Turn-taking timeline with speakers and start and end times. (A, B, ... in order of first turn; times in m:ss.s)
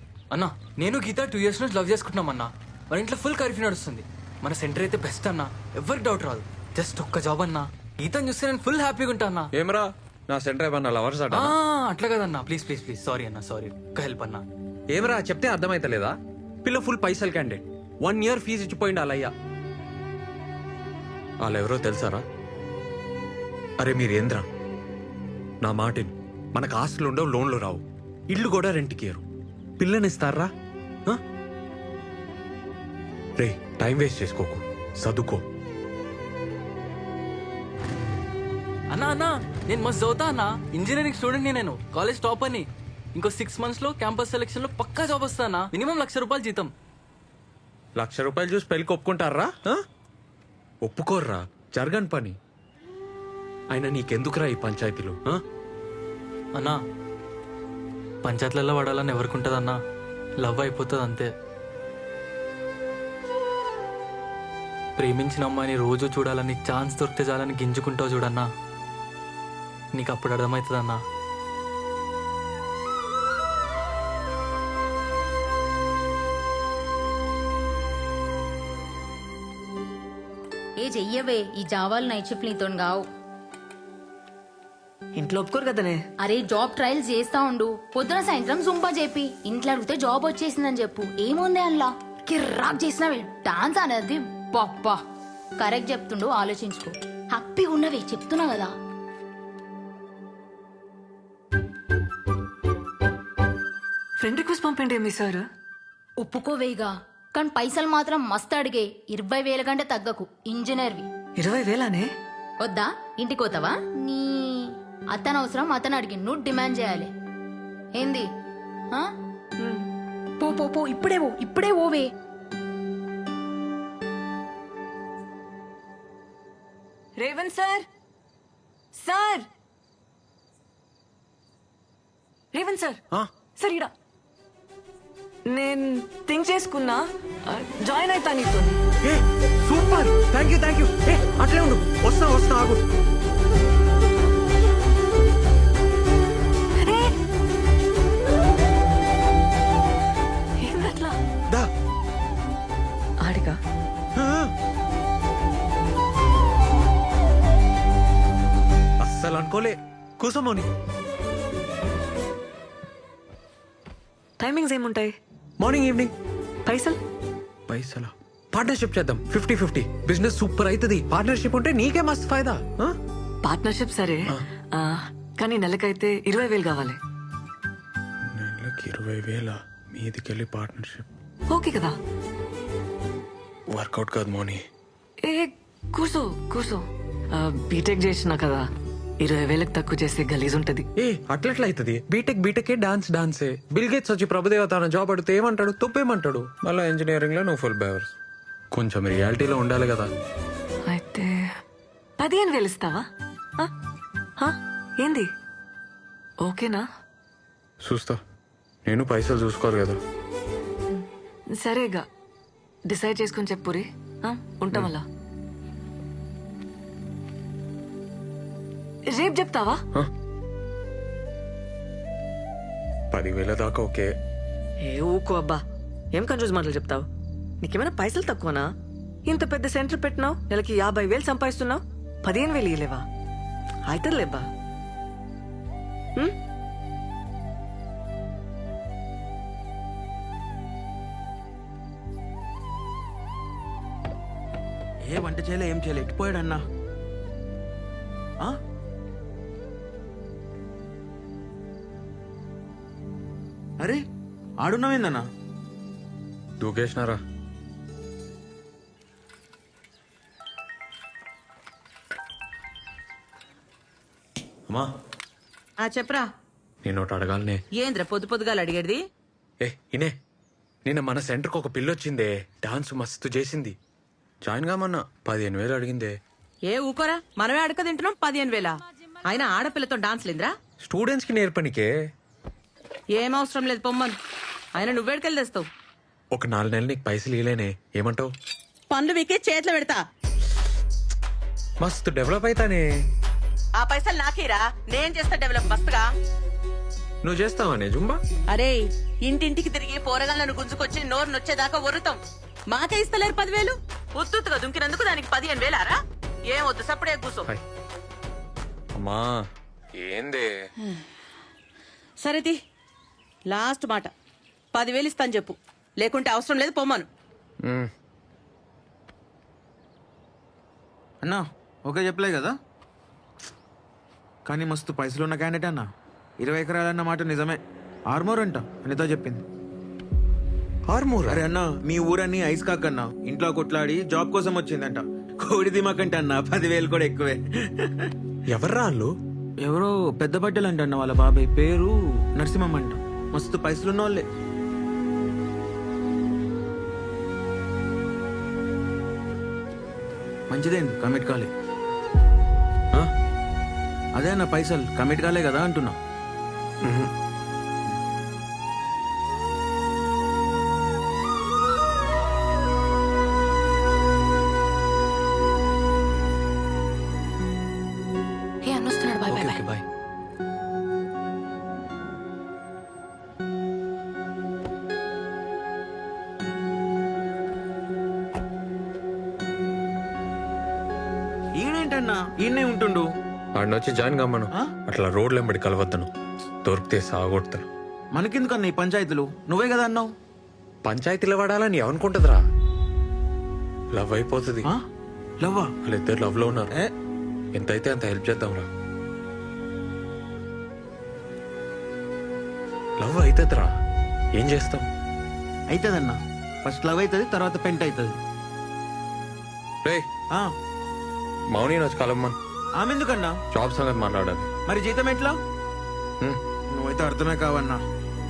0:00.3-0:09.5 A
0:09.5-0:11.5 B
0:11.3-0:14.4 A
0:14.9-0:19.3 B
0:21.4-0:22.2 B
0:23.8-0:24.5 B
0:25.6-0:29.2 B
0:29.8-0:30.5 B
0:33.4-0:35.4 B
0:38.9-0:46.7 A
0:48.0-0:49.8 B
0:50.8-0:52.4 B
0:53.7-0:55.4 B
0:56.5-0:56.8 A
0:58.2-0:59.8 A
1:00.4-1:01.3 A
1:05.0-1:08.5 A
1:09.9-1:11.0 A
1:20.8-1:23.0 C
1:25.2-1:26.0 D
1:26.2-1:35.0 C
1:35.6-1:38.7 C
1:44.2-1:45.4 D
1:46.2-1:51.1 C
1:51.4-1:52.1 D
1:52.6-1:57.1 C
1:58.0-1:58.3 C
1:59.6-1:59.9 D
2:00.4-2:02.1 C
2:07.2-2:07.9 D
2:08.9-2:09.5 D
2:12.5-2:13.0 D
2:13.6-2:13.9 D
2:15.5-2:18.8 D
2:19.0-2:22.8 B
2:26.8-2:27.1 D
2:30.6-2:31.2 D
2:33.2-2:33.6 D
2:34.2-2:34.5 B
2:39.0-2:40.7 B
2:44.4-2:45.1 D
2:45.6-2:46.1 B
2:46.7-2:47.0 D
2:47.7-2:53.0 B
2:53.4-2:57.0 D
2:58.4-3:01.1 B
3:01.5-3:02.0 D
3:03.7-3:04.6 B
3:05.2-3:08.6 D
3:09.2-3:10.9 D
3:11.0-3:18.2 B
3:18.7-3:20.1 B
3:20.8-3:21.4 D
3:22.2-3:23.0 D
3:24.4-3:25.3 D
3:26.4-3:26.9 D
3:27.8-3:28.2 B
3:28.8-3:30.0 B
3:30.9-3:32.1 D
3:32.9-3:35.1 D
3:39.1-3:39.8 D
3:43.1-3:44.1 B
3:44.8-3:47.1 D
3:47.6-3:48.7 D
3:49.3-3:53.1 D
3:53.9-3:54.5 D
4:05.0-4:06.6 E
4:14.6-4:15.2 E
4:16.6-4:17.2 B
4:25.8-4:26.3 F
4:26.8-4:27.6 B
4:27.7-4:29.0 F
4:29.6-4:30.2 B
4:30.9-4:33.8 B
4:34.4-4:36.2 B
4:36.7-4:40.6 F
4:40.8-4:41.9 B
4:43.1-4:44.2 F
4:44.8-4:45.7 F
4:46.3-4:48.3 B
4:48.9-4:50.0 F
4:51.8-4:52.8 B
4:53.8-4:56.1 F
4:57.2-4:58.2 B
4:58.5-5:02.2 F
5:02.7-5:07.5 F
5:09.0-5:09.3 B
5:10.0-5:10.5 B
5:12.2-5:12.6 F
5:13.5-5:14.1 F
5:14.7-5:17.1 F
5:17.6-5:17.9 B
5:21.2-5:22.5 E
5:24.5-5:25.8 E
5:26.4-5:27.6 E
5:28.1-5:29.4 E
5:30.9-5:31.4 B
5:31.3-5:38.1 E
5:38.5-5:39.1 B
5:39.6-5:44.2 E
5:50.5-5:51.5 E
5:54.1-5:56.0 E
5:56.8-5:57.1 B
6:08.6-6:09.6 D
6:09.3-6:09.8 A
6:21.6-6:23.0 E
6:23.6-6:26.1 B
6:26.6-6:27.7 B
6:28.1-6:30.1 E
6:30.8-6:32.4 B
6:33.9-6:34.7 B
6:35.4-6:35.7 E
6:35.8-6:36.7 B
6:37.6-6:38.7 B
6:43.0-6:43.7 B
6:44.4-6:44.9 B
6:45.7-6:48.2 E
6:51.5-6:52.4 B
6:52.8-6:53.4 E
6:53.5-6:54.5 B
6:54.7-6:55.4 E
6:56.7-6:57.8 E